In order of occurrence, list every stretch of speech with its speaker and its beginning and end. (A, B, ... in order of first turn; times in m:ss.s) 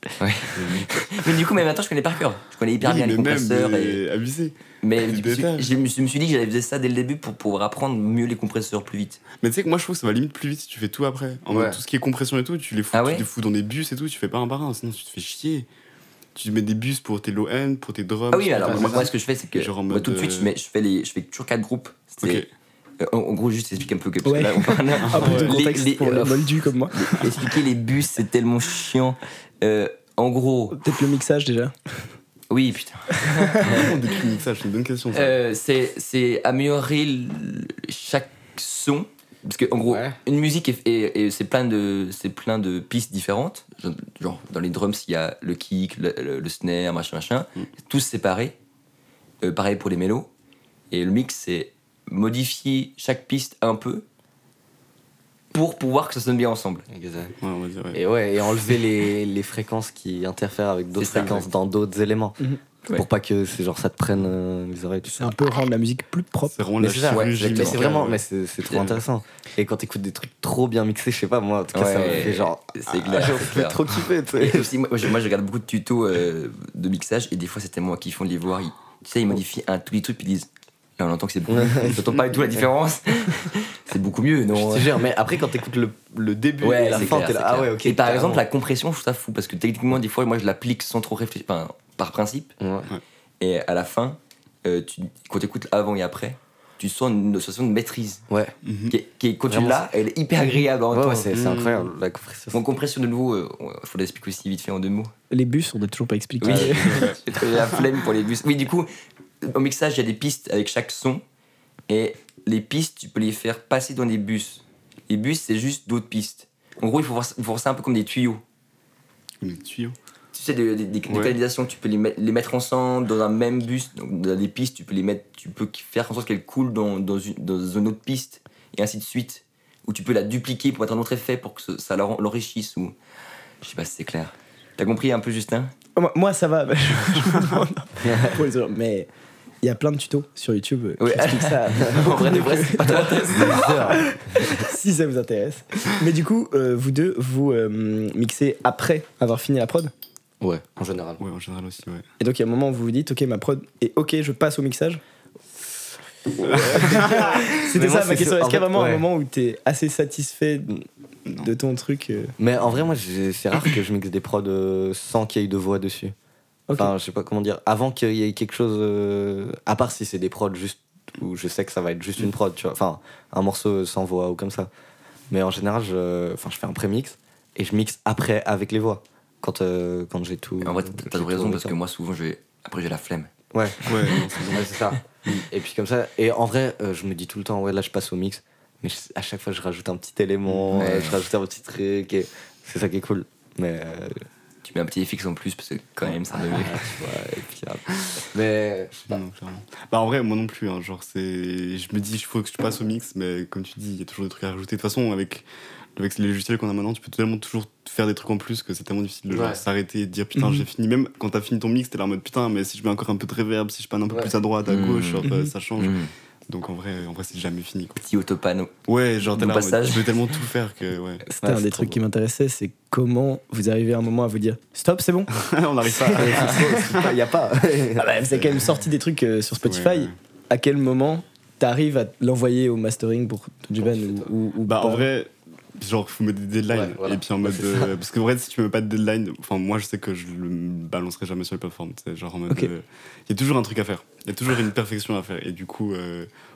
0:00.2-0:04.0 A
0:00.5-0:01.3 B
0:02.8-0:05.7 B
0:04.8-0:09.2 A
0:09.4-0:15.7 B
0:11.5-0:11.8 C
0:12.9-0:13.3 A
0:16.4-0:20.5 B
0:18.3-0:22.4 A
0:18.6-0:19.1 C
0:22.2-0:22.5 B
0:23.0-0:30.9 A
0:24.2-0:27.4 D
0:25.0-0:25.6 B
0:30.7-0:31.8 D
0:32.5-0:34.0 A
0:33.2-0:33.6 D
0:33.6-0:35.4 B
0:35.1-0:48.6 A
0:39.9-0:40.2 C
0:49.4-0:50.3 A
0:50.9-0:54.0 A
0:55.5-0:56.9 A
0:56.9-0:57.4 C
0:57.4-0:58.0 B
0:57.9-1:05.4 C
1:01.0-1:01.5 A
1:05.0-1:06.6 D
1:06.5-1:08.2 B
1:06.8-1:14.7 C
1:07.0-1:07.8 A
1:08.7-1:09.0 A
1:11.7-1:13.9 A
1:14.4-1:25.1 A
1:21.5-1:22.0 C
1:24.5-1:28.4 C
1:26.6-1:32.6 A
1:32.6-1:32.9 C
1:33.4-1:38.2 A
1:38.3-1:38.5 C
1:38.6-1:39.0 B
1:38.9-1:41.3 A
1:39.5-1:39.9 C
1:40.9-1:42.6 C
1:41.3-1:41.9 B
1:42.5-1:45.1 A
1:45.3-1:47.1 D
1:46.4-1:48.9 A
1:46.5-1:47.2 B
1:49.4-1:51.2 A
1:51.9-1:58.4 A
1:59.4-2:00.0 B
2:00.3-2:13.0 A
2:01.1-2:01.4 B
2:13.6-2:15.7 A
2:16.0-2:19.1 D
2:18.0-2:18.4 C
2:19.6-2:29.9 D
2:21.0-2:24.0 A
2:23.3-2:24.6 C
2:30.4-2:31.2 C
2:31.2-2:32.1 B
2:32.2-2:35.0 D
2:36.4-2:39.1 C
2:36.5-2:37.3 B
2:36.7-2:40.8 D
2:41.4-2:42.3 D
2:42.4-2:46.2 C
2:46.7-2:46.9 D
2:46.8-2:54.7 C
2:55.3-3:01.8 C
3:00.6-3:03.3 A
3:03.5-3:14.2 C
3:03.8-3:04.5 A
3:03.9-3:05.5 B
3:10.5-3:11.0 B
3:10.7-3:11.2 A
3:14.6-3:16.8 A
3:16.3-3:19.2 C
3:19.1-3:38.0 B
3:29.3-3:29.6 C
3:30.4-3:30.7 D
3:34.1-3:34.3 C
3:34.6-3:36.1 A
3:38.0-3:38.7 A
3:38.9-3:41.2 B
3:39.2-3:40.4 A
3:41.3-3:45.3 D
3:41.4-3:42.0 C
3:45.3-3:47.1 B
3:45.8-3:47.0 D
3:46.1-3:48.1 C
3:48.0-3:55.1 D
3:48.4-3:48.6 B
3:49.6-3:50.2 B
3:53.8-3:54.3 C
3:54.7-4:06.3 B
3:56.7-3:58.0 C